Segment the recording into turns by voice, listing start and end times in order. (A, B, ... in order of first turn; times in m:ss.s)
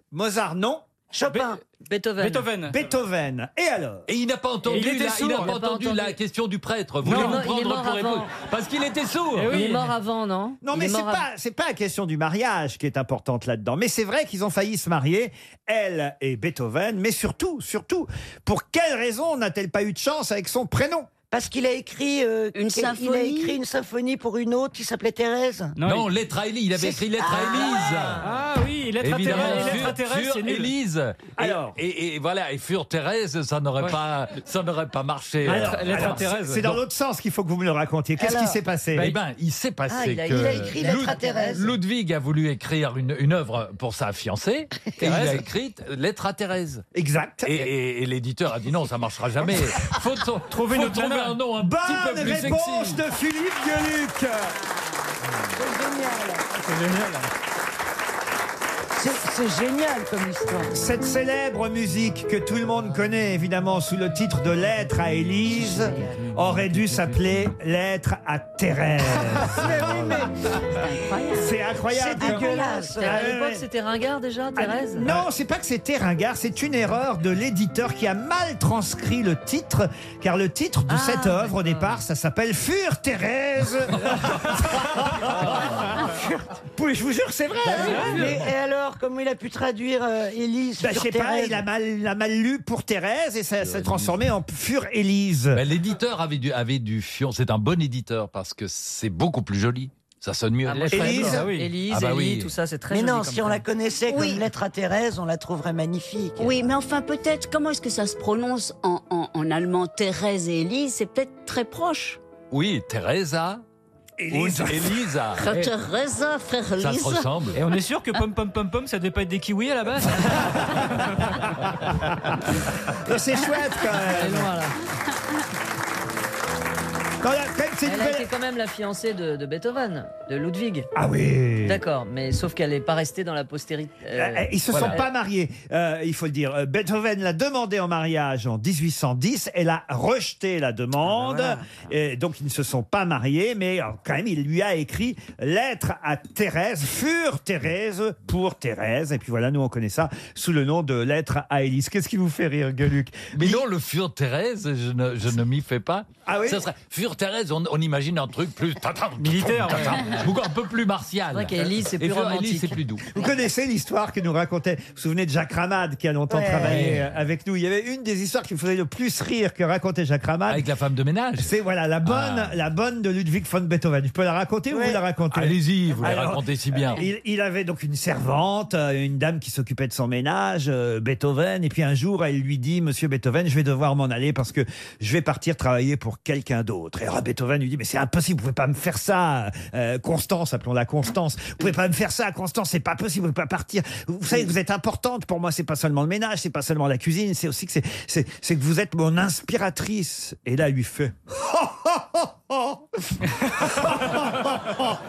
0:00.1-0:00.8 A
0:01.1-0:01.6 B
0:01.3-0:01.6 C
0:01.8-0:02.5 D
0:02.2-0:02.8 C
0:02.7-0:04.0 A
0:04.1-0:09.6 E
0:04.6-0:05.8 C
0:05.3-0:06.2 D
0:07.0-0:07.5 C
0:07.0-0:08.3 D
0:09.3-0:09.9 C
0:09.5-0:11.2 D
0:10.6-0:21.1 A
0:21.3-0:25.8 B
0:22.6-0:23.5 F
0:25.8-0:26.1 C
0:25.8-0:28.2 E
0:26.7-0:28.2 B
0:28.2-0:30.7 C
0:29.0-0:36.4 E
0:31.4-0:31.8 A
0:35.4-0:36.8 C
0:35.4-0:39.2 A
0:38.2-0:38.6 B
0:38.9-0:46.8 E
0:39.9-0:41.3 D
0:40.3-0:41.7 B
0:45.0-0:45.4 C
0:46.9-0:47.7 A
0:47.4-0:53.0 E
0:50.5-0:51.4 C
0:51.5-0:54.5 A
0:56.5-0:57.3 C
0:58.9-1:00.7 B
1:00.7-1:10.3 A
1:05.5-1:06.2 B
1:11.3-1:13.6 A
1:11.9-1:13.2 B
1:12.9-1:15.1 D
1:14.6-1:25.6 A
1:25.2-1:26.0 E
1:26.7-1:28.4 A
1:27.7-1:31.6 B
1:27.7-1:28.5 E
1:27.8-1:28.3 C
1:30.8-1:35.6 A
1:33.6-1:34.2 E
1:35.5-1:42.5 E
1:40.6-1:43.6 D
1:40.9-1:41.5 A
1:41.2-1:41.8 C
1:42.9-1:46.5 B
1:44.1-1:44.4 F
1:46.4-1:52.2 F
1:52.5-1:53.6 E
1:54.2-1:55.0 A
1:54.3-1:55.4 E
1:55.4-1:57.3 F
1:56.8-1:57.6 E
1:57.6-2:00.7 C
2:00.6-2:01.1 A
2:02.1-2:02.4 A
2:03.0-2:04.5 A
2:04.0-2:04.7 D
2:07.2-2:08.3 A
2:07.8-2:10.9 D
2:10.9-2:11.8 A
2:11.6-2:15.0 D
2:14.2-2:33.6 A
2:14.7-2:15.0 E
2:33.3-2:43.1 E
2:36.2-2:36.6 A
2:39.2-2:40.1 C
2:41.3-2:42.9 D
2:43.1-2:50.6 A
2:46.3-2:46.8 B
2:46.6-2:47.1 E
2:50.5-2:51.5 E
2:51.4-3:21.1 A
2:52.0-2:52.6 E
2:55.3-2:57.0 E